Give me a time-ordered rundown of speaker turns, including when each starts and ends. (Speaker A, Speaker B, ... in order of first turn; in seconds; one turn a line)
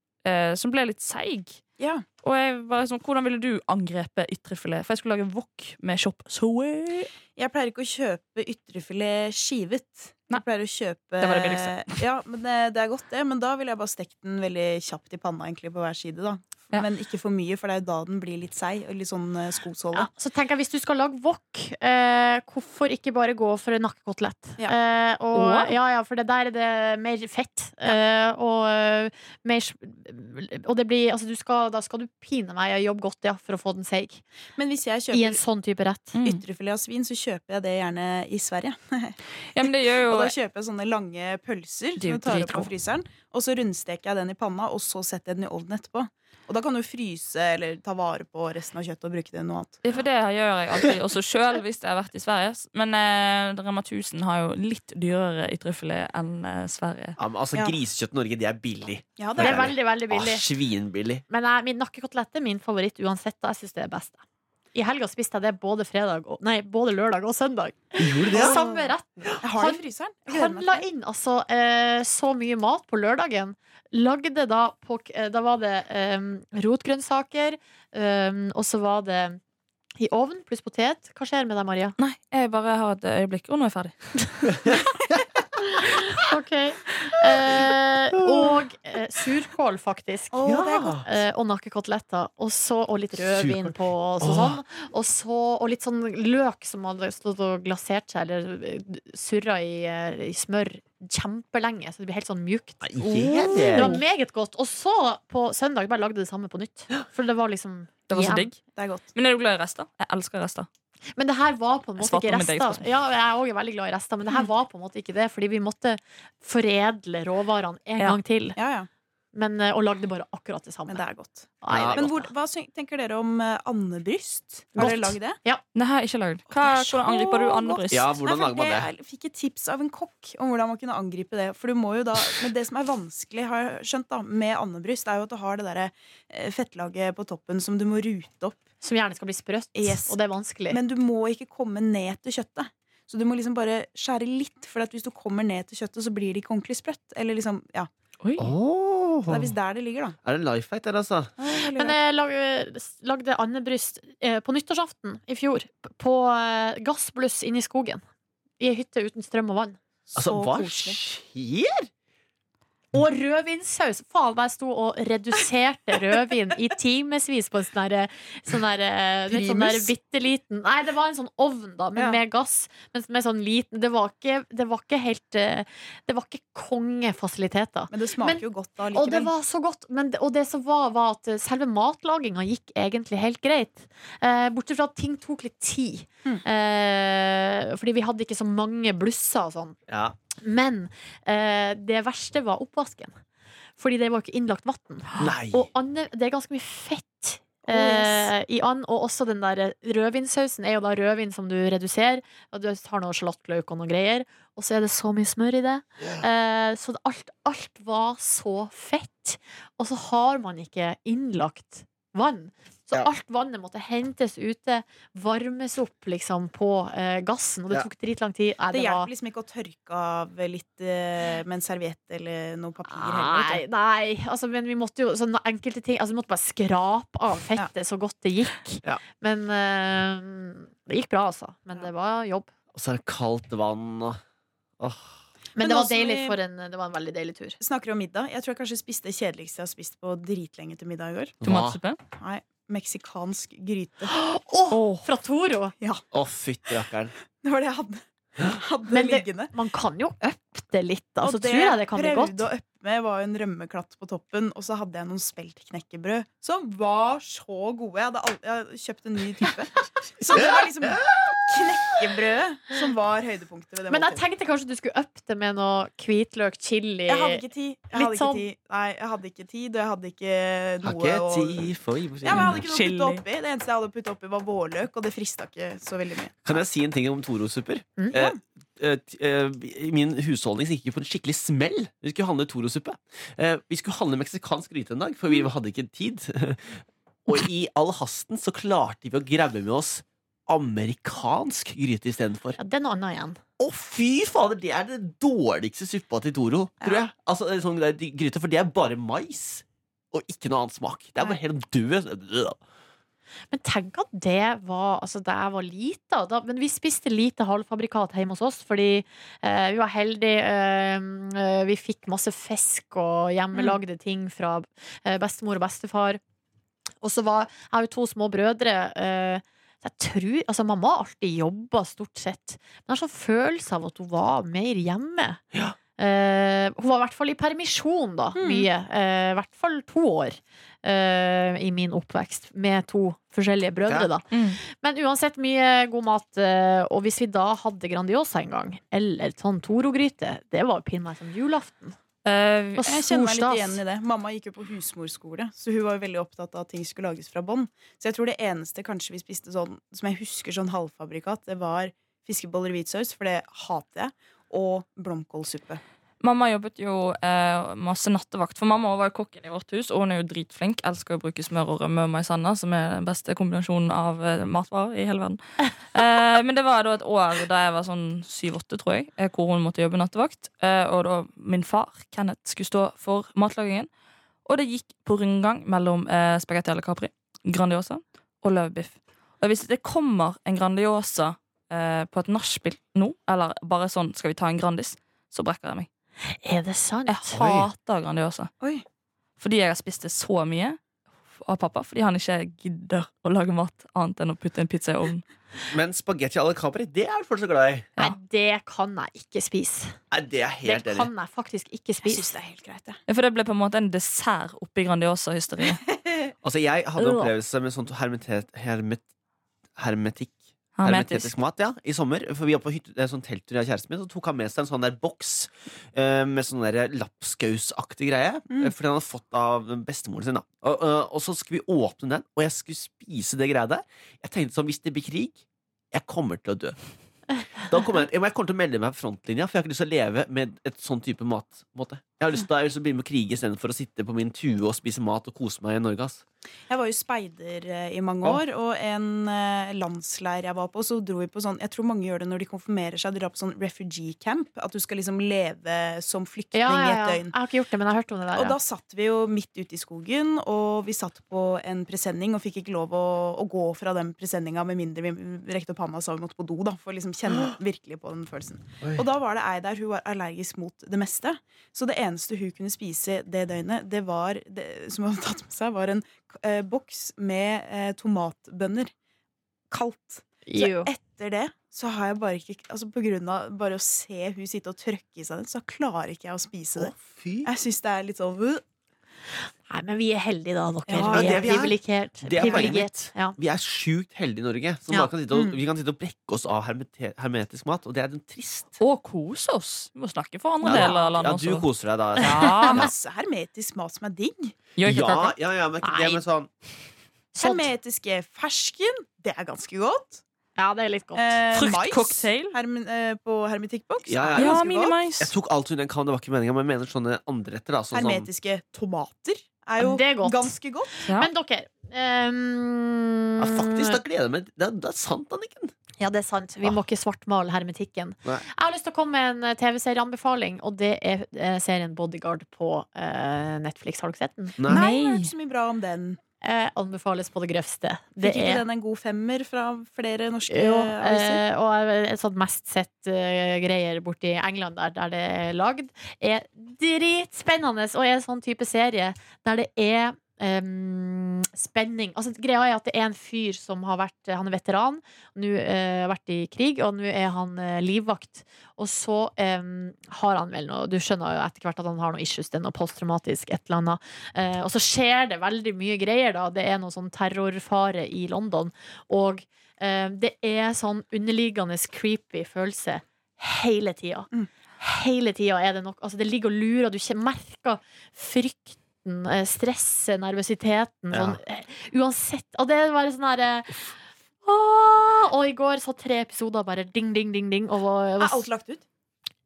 Speaker A: 0.2-1.6
Speaker B: 1.8-2.0
Speaker A: 2.2-7.1
Speaker B: 7.3-20.1
Speaker A: 11.2-11.9
Speaker C: 19.9-34.2
Speaker A: 25.3-25.7
Speaker B: 34.6-35.4
Speaker C: 35.1-36.2
Speaker A: 36.1-36.4
Speaker B: 36.2-49.8
Speaker A: 39.5-40.3
Speaker A: 42.0-42.7
Speaker A: 49.8-57.2
Speaker D: 57.2-61.2
Speaker B: 59.2-59.7
Speaker C: 59.4-60.4
Speaker C: 61.3-64.2
Speaker C: 64.7-79.4
Speaker D: 68.0-69.3
Speaker B: 68.3-68.6
Speaker B: 69.4-70.8
Speaker C: 80.0-82.0
Speaker A: 82.0-84.5
Speaker C: 85.8-108.5
Speaker D: 88.2-88.5
Speaker B: 90.3-91.0
Speaker D: 90.4-91.0
Speaker D: 93.2-94.6
Speaker D: 102.8-104.0
Speaker A: 103.7-104.0
Speaker A: 108.1-108.6
Speaker B: 108.7-109.1
Speaker A: 109.1-110.7
Speaker C: 111.2-118.6
Speaker A: 112.0-112.8
Speaker B: 118.6-118.9
Speaker C: 119.3-121.0
Speaker B: 120.9-125.4
Speaker C: 121.6-122.3
Speaker D: 121.7-122.1
Speaker C: 124.8-125.6
Speaker A: 125.7-128.1
Speaker B: 126.6-138.6
Speaker D: 127.9-128.9
Speaker C: 138.8-140.8
Speaker B: 139.7-140.2
Speaker B: 140.7-147.9
Speaker A: 148.2-148.5
Speaker D: 148.4-149.5
Speaker B: 149.3-150.2
Speaker D: 150.2-151.3
Speaker B: 151.4-152.0
Speaker C: 151.7-158.0
Speaker C: 158.6-159.8
Speaker D: 160.1-161.9
Speaker B: 160.2-161.0
Speaker C: 162.9-189.8
Speaker B: 169.3-169.9
Speaker B: 177.9-179.3
Speaker D: 189.9-190.1
Speaker C: 190.4-193.2
Speaker C: 193.8-219.1
Speaker D: 195.2-195.7
Speaker B: 197.7-198.3
Speaker B: 218.7-223.6
Speaker C: 222.9-232.5
Speaker D: 232.7-234.2
Speaker D: 234.8-235.2
Speaker C: 235.6-237.6
Speaker B: 235.6-236.4
Speaker B: 237.6-241.4
Speaker D: 241.4-241.8
Speaker A: 241.4-242.0
Speaker B: 242.2-244.1
Speaker C: 244.2-245.7
Speaker A: 244.7-245.1
Speaker D: 246.1-247.1
Speaker B: 247.4-249.5
Speaker C: 248.9-252.5
Speaker B: 251.2-264.2
Speaker D: 260.3-261.4
Speaker C: 263.9-268.4
Speaker B: 267.1-271.7
Speaker D: 270.8-272.6
Speaker B: 272.2-276.6
Speaker A: 272.2-273.2
Speaker D: 276.4-292.6
Speaker C: 292.6-293.4
Speaker D: 293.6-302.6
Speaker C: 303.5-316.2
Speaker C: 317.0-325.4
Speaker C: 326.0-341.9
Speaker B: 328.3-328.7
Speaker A: 334.3-334.6
Speaker A: 342.2-342.9
Speaker C: 342.8-343.8
Speaker B: 342.9-355.8
Speaker A: 356.2-373.9
Speaker A: 374.4-385.9
Speaker C: 386.4-387.3
Speaker A: 387.1-388.5
Speaker D: 387.3-387.7
Speaker A: 389.4-390.8
Speaker A: 391.3-395.2
Speaker D: 395.7-397.9
Speaker C: 398.0-399.9
Speaker D: 400.1-401.1
Speaker C: 400.6-402.3
Speaker B: 402.0-403.0
Speaker A: 403.1-405.8
Speaker D: 406.4-409.0
Speaker D: 409.8-426.7
Speaker A: 410.8-411.3
Speaker D: 427.6-436.2
Speaker B: 436.7-447.3
Speaker C: 446.5-448.6
Speaker B: 448.3-468.9
Speaker B: 469.7-476.9
Speaker C: 470.4-470.9
Speaker D: 476.8-477.5
Speaker B: 477.4-478.6
Speaker C: 479.7-483.4
Speaker B: 480.9-481.6
Speaker D: 481.1-488.8
Speaker B: 482.4-482.7
Speaker B: 485.3-485.6
Speaker A: 488.8-491.6
Speaker D: 490.6-492.9
Speaker B: 490.7-491.0
Speaker A: 492.2-492.9
Speaker B: 492.6-494.5
Speaker A: 494.8-495.3
Speaker D: 494.8-496.5
Speaker C: 495.8-496.2
Speaker C: 497.3-497.7
Speaker B: 497.4-500.2
Speaker C: 500.6-501.4
Speaker B: 501.1-504.9
Speaker A: 501.5-502.6
Speaker D: 504.1-508.3
Speaker A: 504.4-505.3
Speaker B: 507.9-510.9
Speaker C: 509.8-514.0
Speaker D: 513.4-515.7
Speaker C: 516.0-524.6
Speaker D: 524.6-524.9
Speaker A: 524.7-525.3
Speaker B: 524.7-526.2
Speaker C: 526.4-528.6
Speaker B: 528.2-531.4
Speaker C: 530.5-564.3
Speaker C: 564.8-573.9
Speaker D: 571.1-571.4
Speaker C: 574.4-578.5
Speaker B: 578.2-578.8